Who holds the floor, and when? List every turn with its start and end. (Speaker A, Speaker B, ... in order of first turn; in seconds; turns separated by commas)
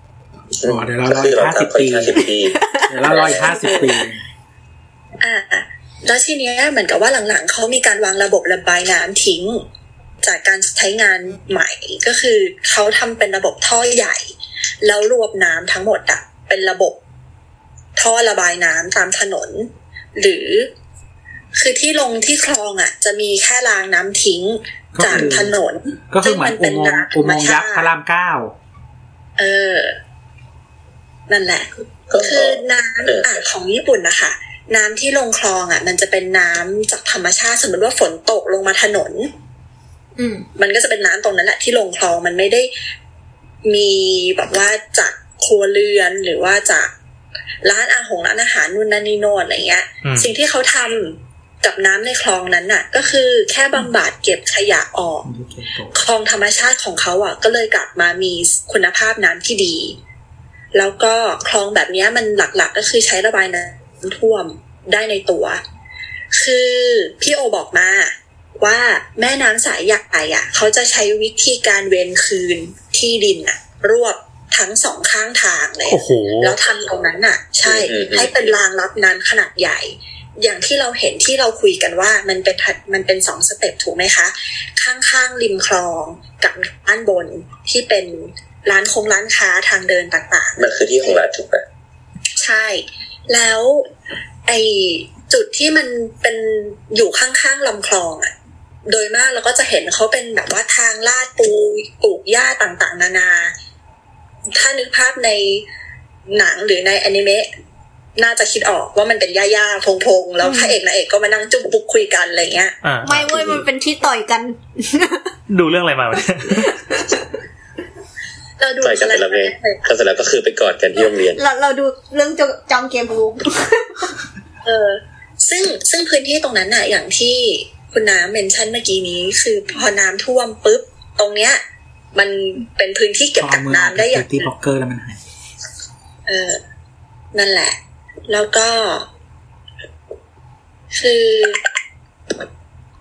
Speaker A: 0.6-3.7, Speaker B: 0.6-2.3, Speaker C: 2.5-3.0, Speaker B: 2.9-4.2, Speaker D: 3.2-3.9, Speaker D: 5.2-9.6, Speaker D: 10.2-14.3, Speaker D: 14.8-17.0, Speaker D: 17.9-20.7, Speaker D: 21.5-27.9, Speaker B: 24.9-25.5, Speaker B: 26.1-28.5, Speaker D: 29.4-29.9, Speaker D: 31.3-39.3, Speaker A: 32.1-33.4, Speaker C: 40.2-40.5, Speaker D: 40.6-42.7, Speaker D: 43.6-46.9, Speaker D: 47.6-55.2, Speaker E: 50.0-50.3, Speaker B: 55.2-56.0, Speaker D: 55.9-60.0, Speaker D: 60.7-65.6, Speaker D: 66.3-91.2, Speaker E: 75.9-76.6, Speaker A: 77.6-78.5, Speaker A: 90.6-91.6, Speaker D: 92.4-93.9, Speaker D: 94.5-98.3, Speaker D: 98.9-103.5, Speaker D: 104.5-105.6, Speaker D: 106.3-107.5, Speaker D: 108.2-112.8, Speaker C: 110.4-110.8, Speaker E: 112.8-113.2, Speaker C: 113.0-115.3, Speaker A: 113.1-113.6, Speaker E: 115.5-116.8, Speaker C: 116.5-117.2, Speaker D: 118.6-119.8, Speaker A: 118.8-121.4, Speaker C: 121.3-124.1, Speaker D: 124.6-131.6, Speaker D: 132.1-134.4, Speaker B: 133.4-135.2, Speaker D: 136.3-136.6, Speaker D: 137.3-137.8, Speaker D: 138.3-139.1, Speaker D: 140.9-141.6